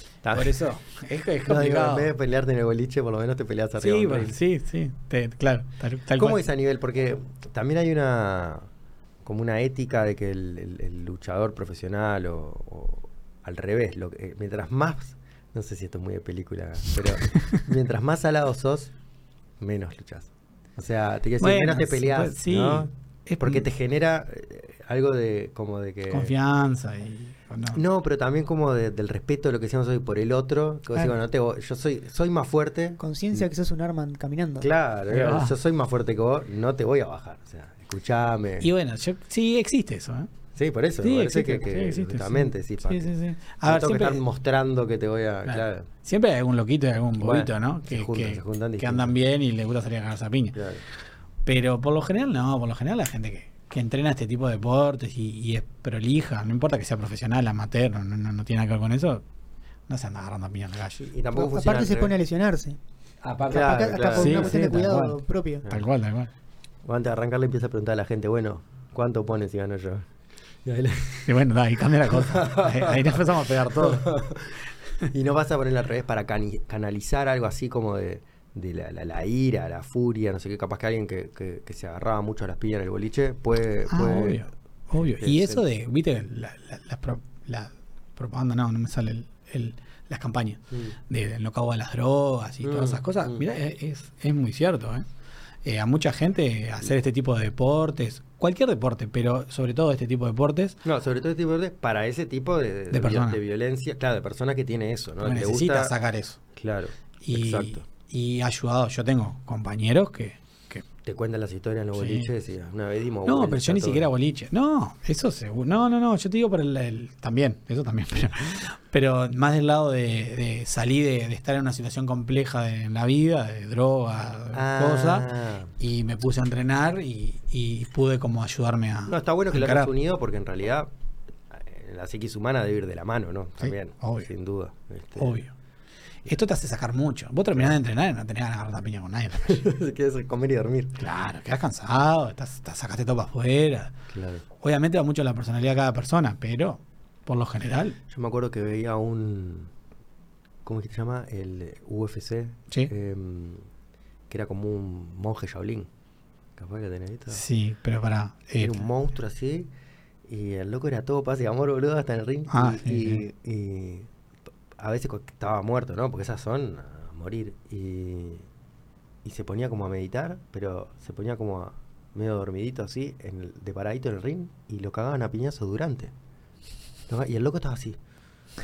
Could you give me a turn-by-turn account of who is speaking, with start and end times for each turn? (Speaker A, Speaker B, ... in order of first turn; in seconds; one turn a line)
Speaker A: 0.2-0.6
Speaker B: 0.3-2.1
Speaker A: 1.4-4.3
Speaker B: 3.8-6.4
Speaker A: 6.2-8.7
Speaker A: 9.2-18.9
Speaker A: 19.6-26.3
Speaker B: 21.4-23.7
Speaker B: 26.1-27.8
Speaker A: 27.7-33.5
Speaker C: 33.0-34.7
Speaker A: 34.6-38.7
Speaker B: 35.1-35.6
Speaker B: 38.6-40.3
Speaker A: 40.5-43.1
Speaker B: 41.0-44.2
Speaker A: 43.6-45.9
Speaker B: 45.5-50.6
Speaker A: 47.2-49.2
Speaker A: 50.5-50.9
Speaker B: 51.5-59.2
Speaker B: 59.9-61.0
Speaker A: 61.0-62.2
Speaker C: 61.3-62.8
Speaker B: 63.2-66.3
Speaker A: 63.5-64.6
Speaker C: 63.5-65.7
Speaker A: 66.8-70.1
Speaker A: 70.6-71.4
Speaker B: 71.3-74.1
Speaker A: 72.0-84.4
Speaker B: 83.9-95.1
Speaker A: 85.0-85.6
Speaker A: 90.7-91.0
Speaker A: 92.6-93.5
Speaker B: 95.6-100.8
Speaker A: 100.8-106.0
Speaker B: 102.9-103.4
Speaker B: 105.2-106.4
Speaker A: 106.5-107.8
Speaker B: 107.2-110.9
Speaker A: 111.0-114.1
Speaker B: 112.0-112.3
Speaker B: 113.2-129.9
Speaker A: 124.5-125.7
Speaker A: 129.1-130.9
Speaker A: 131.5-135.4
Speaker B: 133.6-134.3
Speaker B: 135.2-135.5
Speaker B: 136.2-139.7
Speaker A: 139.4-141.0
Speaker B: 141.0-143.9
Speaker A: 144.1-144.4
Speaker B: 144.6-148.0
Speaker A: 148.1-149.7
Speaker A: 150.7-153.7
Speaker A: 154.3-155.9
Speaker A: 156.6-157.4
Speaker B: 157.3-158.8
Speaker A: 158.6-159.7
Speaker A: 160.2-164.1
Speaker B: 162.5-163.2
Speaker A: 164.8-168.5
Speaker A: 169.2-176.1
Speaker A: 177.1-178.0